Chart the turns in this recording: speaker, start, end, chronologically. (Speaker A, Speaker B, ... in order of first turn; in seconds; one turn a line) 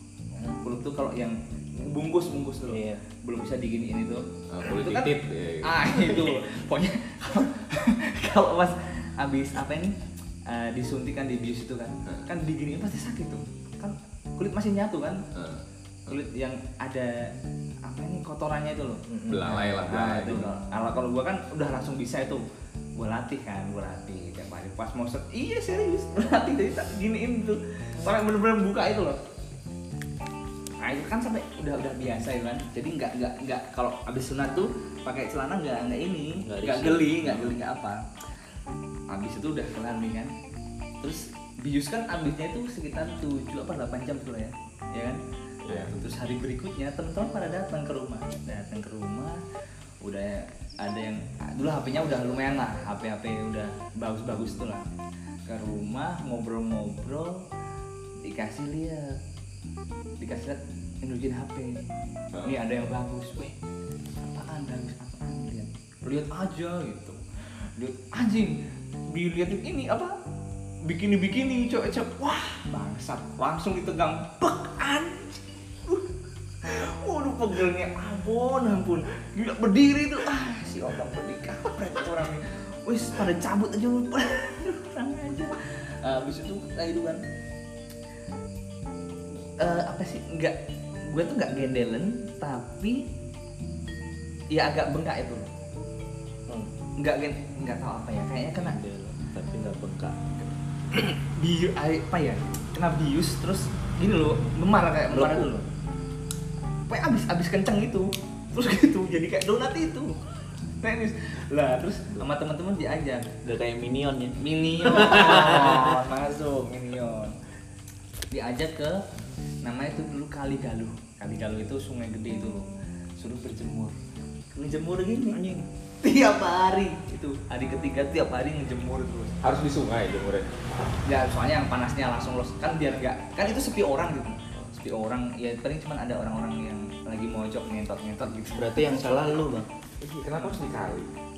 Speaker A: 0.5-10.0
Speaker B: 2.7-3.0
Speaker C: 4.5-6.4
Speaker A: 10.5-15.3
Speaker C: 15.3-16.2
Speaker A: 16.1-17.3
Speaker A: 17.9-22.4
Speaker B: 19.1-19.7
Speaker C: 19.3-20.5
Speaker A: 23.0-29.2
Speaker A: 30.8-38.1
Speaker B: 36.4-37.2
Speaker A: 39.1-40.3
Speaker A: 41.0-49.4
Speaker C: 45.6-46.0
Speaker A: 50.0-54.9
Speaker A: 55.5-57.5
Speaker A: 58.2-59.2
Speaker A: 60.2-61.9
Speaker C: 62.3-62.6
Speaker A: 62.4-63.6
Speaker A: 64.2-67.2
Speaker A: 67.8-70.2
Speaker A: 70.8-76.1
Speaker A: 76.6-87.2
Speaker A: 89.6-93.1
Speaker A: 94.5-95.5
Speaker B: 96.5-96.7
Speaker A: 97.0-98.8
Speaker B: 98.6-100.3
Speaker A: 100.9-105.7
Speaker B: 105.1-105.5
Speaker A: 106.9-110.2
Speaker A: 110.8-113.3
Speaker B: 113.4-116.0
Speaker A: 114.4-117.4
Speaker A: 118.3-119.0
Speaker A: 119.6-122.7
Speaker A: 123.2-124.0
Speaker A: 124.5-125.4
Speaker B: 125.3-125.7
Speaker A: 126.0-129.4
Speaker C: 129.4-130.5
Speaker A: 131.1-139.0
Speaker B: 138.5-139.7
Speaker C: 140.0-141.1